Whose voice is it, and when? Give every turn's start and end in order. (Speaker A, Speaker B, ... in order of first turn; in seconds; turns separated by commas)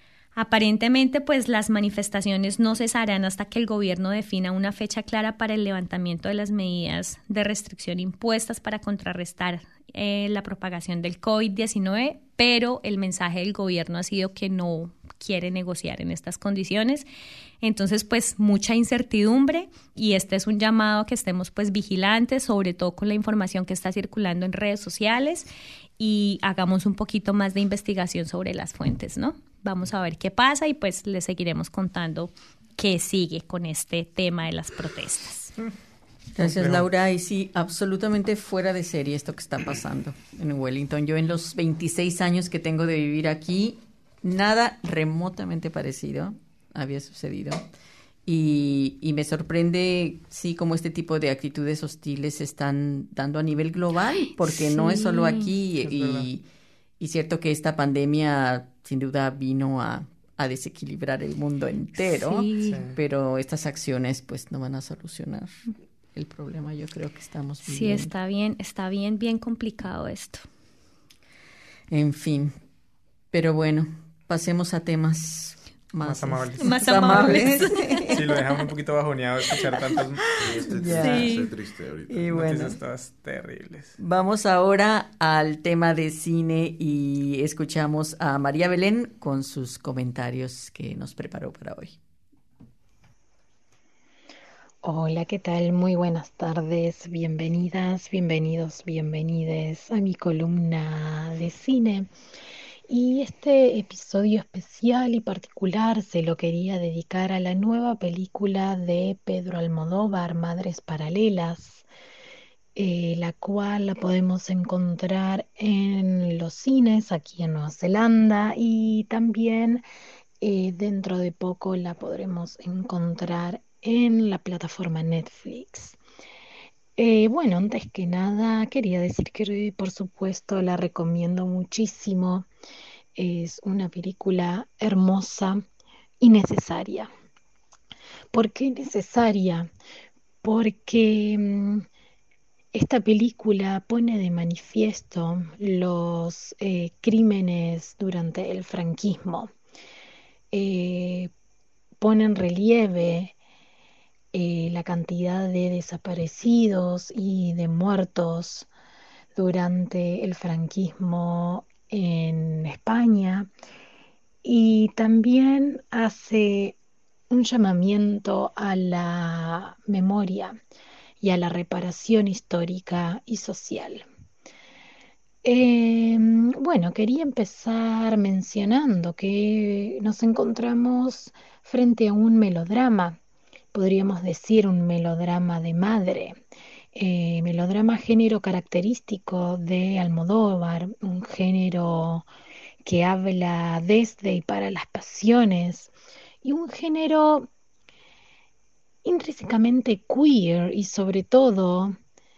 Speaker A: 0.3-17.1, Speaker A: 17.6-25.5, Speaker A: 26.0-35.5, Speaker B: 36.4-47.6, Speaker C: 36.4-36.9, Speaker B: 48.2-56.5, Speaker A: 54.3-55.5, Speaker C: 55.8-56.3, Speaker B: 57.0-65.6, Speaker A: 62.2-62.8, Speaker C: 62.6-63.0, Speaker B: 66.1-68.1, Speaker A: 67.6-70.5, Speaker B: 71.9-72.5, Speaker B: 73.3-78.3, Speaker C: 76.0-77.4, Speaker A: 76.6-78.2, Speaker C: 78.1-80.7, Speaker D: 80.4-82.3, Speaker B: 80.5-81.3, Speaker A: 81.0-81.5, Speaker B: 82.1-82.8, Speaker C: 82.3-84.0, Speaker B: 84.0-92.0, Speaker E: 94.8-102.1, Speaker E: 102.9-111.8, Speaker E: 112.8-119.8, Speaker E: 120.4-126.0, Speaker E: 127.0-132.5, Speaker E: 133.1-135.6, Speaker E: 136.2-137.1, Speaker E: 138.3-139.7, Speaker E: 140.4-141.8, Speaker E: 142.7-149.5, Speaker E: 150.5-151.3, Speaker E: 152.0-153.3, Speaker E: 154.3-158.7, Speaker E: 159.3-163.5, Speaker E: 164.4-166.8, Speaker E: 167.3-170.6, Speaker E: 171.2-174.0, Speaker E: 175.4-183.2, Speaker E: 183.7-186.4, Speaker E: 186.9-192.3, Speaker E: 192.8-195.9, Speaker E: 196.4-197.5, Speaker E: 199.0-201.9